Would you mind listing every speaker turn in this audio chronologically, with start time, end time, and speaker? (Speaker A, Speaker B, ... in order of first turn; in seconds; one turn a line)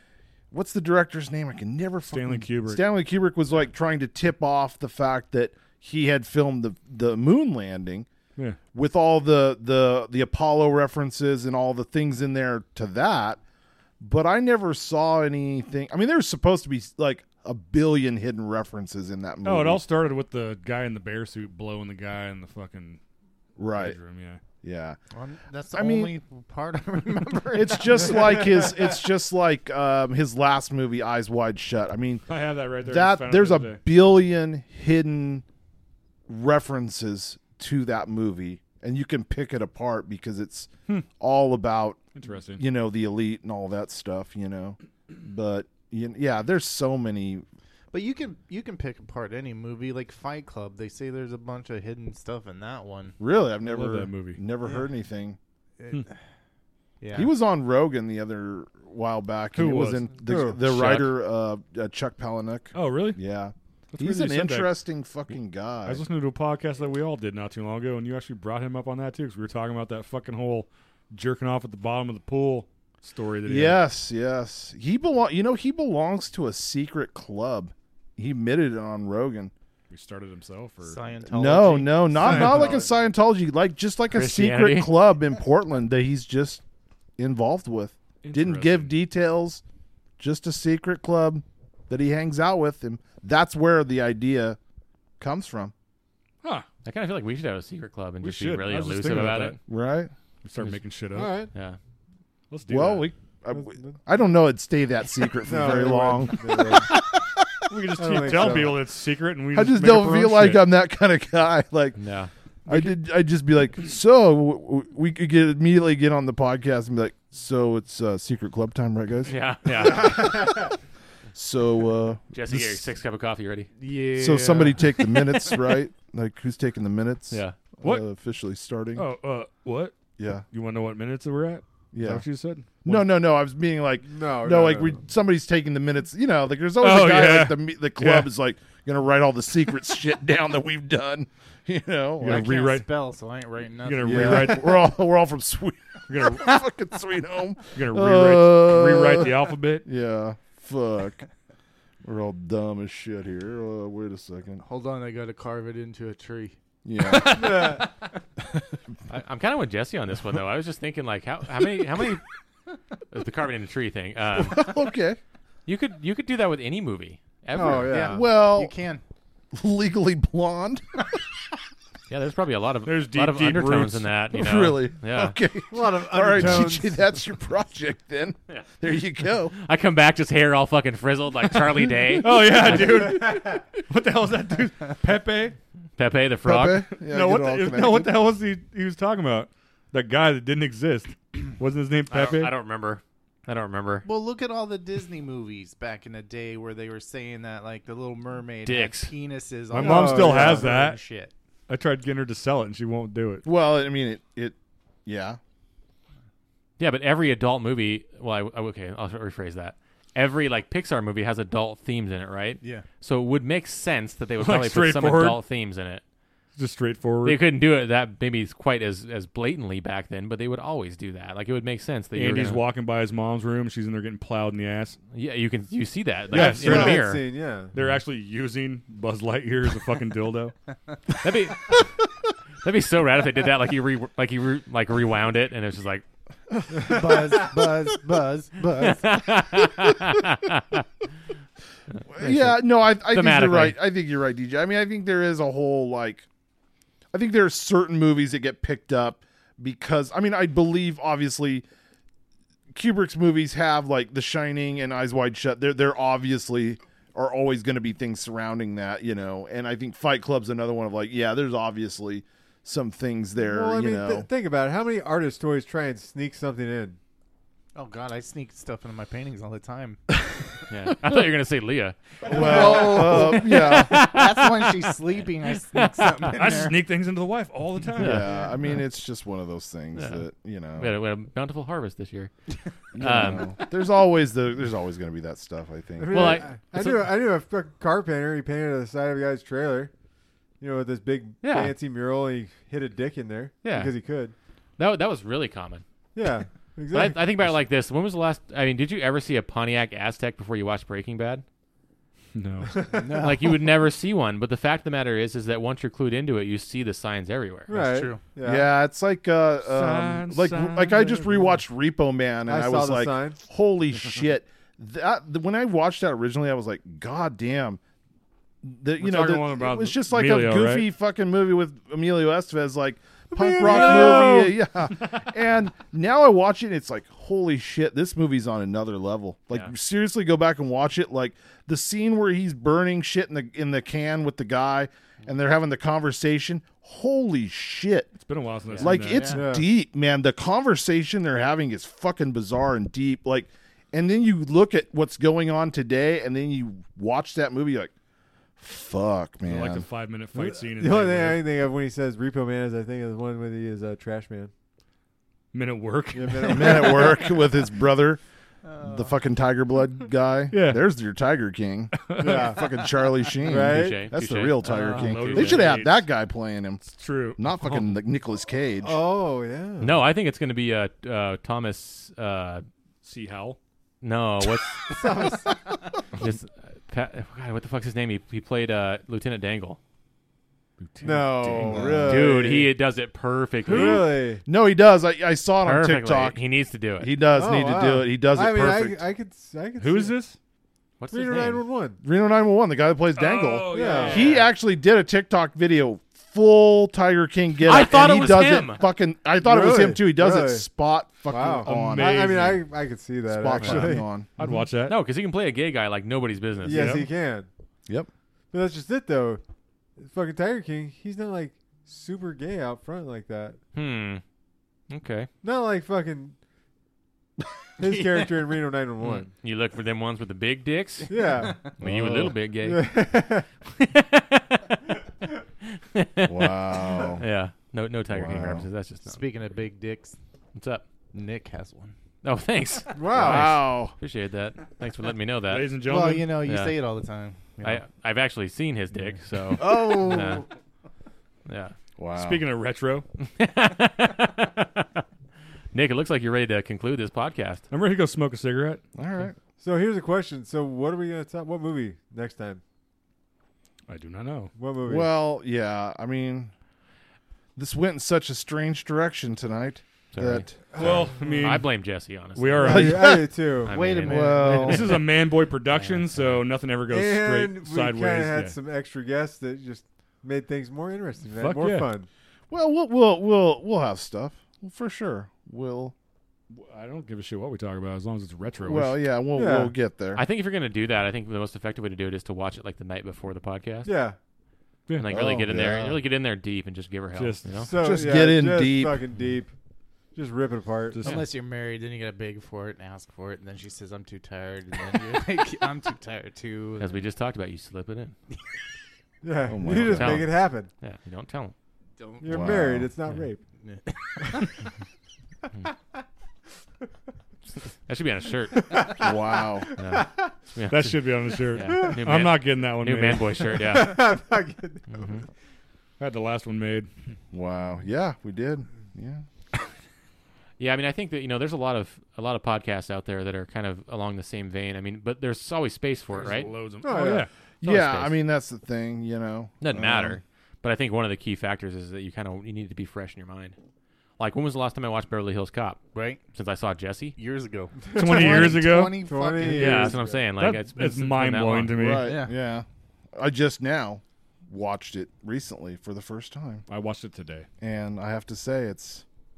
Speaker A: 0.5-8.1
Speaker B: 2.1-2.8
Speaker A: 8.7-13.4
Speaker A: 14.0-19.8
Speaker B: 19.4-23.0
Speaker A: 23.6-24.0
Speaker B: 23.8-24.4
Speaker A: 24.6-25.0
Speaker C: 25.1-28.9
Speaker A: 25.7-26.1
Speaker A: 27.5-32.3
Speaker B: 32.3-33.8
Speaker A: 32.8-35.4
Speaker A: 36.3-42.0
Speaker B: 42.1-42.6
Speaker A: 42.6-47.5
Speaker C: 47.9-53.2
Speaker A: 53.2-55.4
Speaker B: 53.7-54.4
Speaker C: 55.8-56.2
Speaker C: 57.0-57.3
Speaker A: 57.1-66.0
Speaker B: 59.5-60.1
Speaker D: 60.2-60.6
Speaker E: 60.7-61.1
Speaker B: 62.7-63.2
Speaker B: 63.9-64.7
Speaker B: 65.9-73.8
Speaker A: 73.5-79.5
Speaker B: 79.9-81.0
Speaker C: 80.8-83.0
Speaker A: 81.3-86.6
Speaker D: 82.2-82.8
Speaker E: 84.1-84.9
Speaker A: 87.2-89.6
Speaker B: 88.2-88.9
Speaker A: 90.2-94.6
Speaker A: 95.2-95.7
Speaker E: 96.8-99.6
Speaker B: 98.2-99.6
Speaker A: 99.7-100.1
Speaker B: 100.4-101.4
Speaker E: 100.6-100.8
Speaker D: 101.1-101.5
Speaker E: 101.5-101.8
Speaker B: 102.5-103.1
Speaker A: 102.7-107.2
Speaker D: 103.5-104.0
Speaker D: 105.4-106.9
Speaker B: 107.7-110.7
Speaker D: 108.0-108.8
Speaker A: 108.3-108.6
Speaker A: 109.5-112.0
Speaker E: 112.0-112.3
Speaker A: 112.7-120.7
Speaker B: 112.7-113.0
Speaker E: 119.3-120.3
Speaker D: 120.0-120.7
Speaker A: 121.3-122.8
Speaker E: 122.3-123.7
Speaker C: 123.8-125.5
Speaker A: 124.2-129.1
Speaker E: 127.3-127.6
Speaker B: 129.0-129.9
Speaker A: 130.2-130.5
Speaker B: 130.5-133.1
Speaker A: 131.9-142.5
Speaker D: 134.0-135.0
Speaker B: 136.8-138.3
Speaker B: 142.2-142.9
Speaker C: 142.2-144.6
Speaker B: 143.8-144.9
Speaker A: 144.0-151.2
Speaker B: 146.1-146.6
Speaker B: 147.8-149.8
Speaker A: 152.0-154.6
Speaker C: 154.6-156.6
Speaker A: 156.8-157.8
Speaker B: 157.0-157.9
Speaker D: 157.2-157.9
Speaker E: 159.1-162.2
Speaker E: 163.1-164.7
Speaker A: 164.4-165.2
Speaker E: 165.7-168.1
Speaker D: 167.6-168.3
Speaker C: 167.8-169.0
Speaker A: 168.1-168.7
Speaker A: 169.5-170.8
Speaker E: 172.1-175.3
Speaker B: 172.9-174.1
Speaker A: 174.3-179.6
Speaker D: 175.7-177.2
Speaker E: 179.6-182.4
Speaker B: 181.8-185.6
Speaker D: 182.7-183.6
Speaker E: 186.0-186.8
Speaker A: 186.4-188.1
Speaker B: 187.0-192.5
Speaker E: 192.1-194.1
Speaker C: 194.0-201.3
Speaker E: 198.6-199.1
Speaker B: 199.7-201.0
Speaker D: 199.7-200.7
Speaker B: 201.7-203.4
Speaker A: 203.4-205.4
Speaker E: 206.8-216.0
Speaker C: 212.6-212.9
Speaker B: 214.4-215.4
Speaker B: 216.6-217.4
Speaker E: 217.2-222.6
Speaker B: 222.1-225.0
Speaker E: 225.1-227.2
Speaker B: 226.3-227.1
Speaker D: 226.3-227.7
Speaker B: 227.7-230.6
Speaker E: 231.2-231.8
Speaker E: 232.6-236.1
Speaker D: 236.8-237.0
Speaker C: 236.8-239.4
Speaker E: 238.8-240.8
Speaker A: 242.1-246.3
Speaker E: 242.2-243.8
Speaker A: 247.1-251.7
Speaker A: 252.7-264.3
Speaker D: 263.4-267.0
Speaker C: 267.8-270.0
Speaker E: 270.7-274.8
Speaker A: 272.3-274.1
Speaker C: 272.3-276.8
Speaker E: 275.7-276.3
Speaker B: 276.3-278.3
Speaker E: 278.0-278.4
Speaker A: 278.0-280.9
Speaker E: 280.0-280.3
Speaker E: 280.8-282.3
Speaker A: 282.9-286.4
Speaker E: 283.0-283.4
Speaker D: 286.0-289.9
Speaker E: 286.1-287.1
Speaker D: 290.6-294.3
Speaker E: 291.4-291.8
Speaker E: 293.6-294.0
Speaker E: 294.8-295.8
Speaker D: 296.1-297.6
Speaker E: 296.9-301.4
Speaker B: 302.4-302.9
Speaker D: 302.8-303.0
Speaker C: 302.9-303.6
Speaker E: 303.2-307.7
Speaker D: 307.7-308.7
Speaker C: 307.8-308.2
Speaker A: 308.4-317.8
Speaker B: 309.6-311.6
Speaker D: 312.5-313.4
Speaker A: 318.6-338.1
Speaker B: 319.0-320.9
Speaker D: 323.3-324.6
Speaker B: 323.6-324.4
Speaker B: 338.2-339.3
Speaker A: 338.8-347.9
Speaker C: 339.1-339.4
Speaker D: 339.3-339.7
Speaker A: 348.6-349.9
Speaker B: 349.4-351.4
Speaker D: 350.3-354.5
Speaker B: 355.5-357.2
Speaker D: 356.1-357.2
Speaker A: 356.5-358.2
Speaker C: 358.6-359.1
Speaker A: 358.8-369.0
Speaker B: 360.5-360.8
Speaker B: 362.0-362.5
Speaker D: 362.2-362.6
Speaker D: 363.4-364.0
Speaker E: 363.6-365.6
Speaker B: 364.7-366.1
Speaker B: 366.8-367.9
Speaker D: 368.8-370.1
Speaker E: 369.8-372.6
Speaker B: 373.0-373.6
Speaker E: 374.0-374.8
Speaker D: 374.9-375.6
Speaker E: 376.2-379.8
Speaker B: 380.8-381.7
Speaker D: 381.0-382.8
Speaker A: 381.6-382.4
Speaker E: 381.9-384.1
Speaker B: 383.7-384.1
Speaker D: 383.7-384.4
Speaker A: 384.5-386.4
Speaker E: 385.6-387.1
Speaker A: 387.0-389.0
Speaker D: 387.3-390.2
Speaker B: 389.8-390.4
Speaker E: 391.0-391.6
Speaker D: 391.1-392.0
Speaker A: 392.0-402.4
Speaker B: 393.1-394.5
Speaker D: 393.7-394.3
Speaker E: 397.6-398.8
Speaker D: 399.4-400.7
Speaker D: 401.3-404.1
Speaker B: 401.6-402.6
Speaker A: 403.3-404.3
Speaker B: 403.6-405.0
Speaker E: 404.9-407.0
Speaker D: 406.6-407.5
Speaker B: 406.7-407.1
Speaker D: 408.5-409.4
Speaker D: 410.0-413.6
Speaker E: 413.7-414.2
Speaker E: 414.9-415.3
Speaker D: 415.4-416.4
Speaker D: 417.8-419.3
Speaker E: 419.0-422.9
Speaker D: 421.1-423.5
Speaker C: 421.4-421.7
Speaker E: 423.8-424.7
Speaker E: 425.7-429.2
Speaker A: 426.3-427.2
Speaker A: 428.1-428.7
Speaker C: 429.1-430.2
Speaker E: 430.5-430.9
Speaker C: 431.1-431.9
Speaker E: 432.2-435.7
Speaker D: 432.9-433.6
Speaker A: 433.1-433.9
Speaker B: 435.5-436.4
Speaker C: 435.8-437.8
Speaker E: 436.5-436.8
Speaker E: 437.6-440.4
Speaker C: 439.6-440.4
Speaker A: 439.8-440.1
Speaker E: 441.5-441.8
Speaker A: 442.0-442.4
Speaker B: 442.2-443.1
Speaker E: 443.2-445.0
Speaker E: 445.7-447.6
Speaker B: 447.7-448.8
Speaker A: 449.0-449.3
Speaker D: 449.6-452.6
Speaker B: 453.9-454.5
Speaker D: 454.6-455.1
Speaker A: 454.9-456.5
Speaker A: 457.6-461.1
Speaker E: 460.1-460.5
Speaker D: 460.7-461.6
Speaker B: 460.8-461.7
Speaker E: 461.4-462.9
Speaker B: 462.4-463.2
Speaker D: 462.6-463.8
Speaker A: 462.6-463.4
Speaker E: 463.7-464.7
Speaker C: 463.7-465.0
Speaker A: 464.1-464.9
Speaker B: 464.4-468.6
Speaker E: 465.7-466.4
Speaker D: 466.9-472.1
Speaker B: 471.3-471.9
Speaker A: 472.5-475.9
Speaker B: 476.5-479.0
Speaker A: 478.7-480.2
Speaker D: 479.4-479.8
Speaker E: 480.1-483.9
Speaker D: 483.9-484.2
Speaker E: 485.0-487.7
Speaker A: 485.1-486.0
Speaker B: 487.1-487.7
Speaker D: 487.6-489.5
Speaker A: 487.8-489.0
Speaker D: 490.1-491.0
Speaker B: 490.9-491.3
Speaker C: 491.0-497.0
Speaker E: 496.8-498.1
Speaker D: 499.2-500.7
Speaker A: 499.5-500.3
Speaker E: 499.8-501.5
Speaker C: 502.0-502.4
Speaker D: 502.2-503.4
Speaker A: 502.2-502.9
Speaker C: 503.6-504.6
Speaker E: 507.9-508.8
Speaker D: 508.6-510.3
Speaker A: 508.9-509.7
Speaker E: 509.8-514.1
Speaker B: 510.7-513.4
Speaker D: 511.6-512.0
Speaker D: 513.4-515.1
Speaker E: 514.9-515.2
Speaker B: 516.0-516.9
Speaker A: 517.3-519.2
Speaker E: 520.6-526.5
Speaker B: 526.1-527.3
Speaker D: 526.8-527.3
Speaker A: 527.6-530.2
Speaker E: 527.6-528.1
Speaker E: 529.6-533.6
Speaker E: 534.2-535.8
Speaker C: 535.9-536.2
Speaker E: 536.3-537.2
Speaker C: 537.2-540.0
Speaker D: 537.9-540.2
Speaker B: 538.0-538.9
Speaker E: 539.4-541.8
Speaker B: 540.4-542.2
Speaker A: 541.8-546.6
Speaker C: 542.0-542.3
Speaker B: 546.7-547.5
Speaker A: 547.6-549.0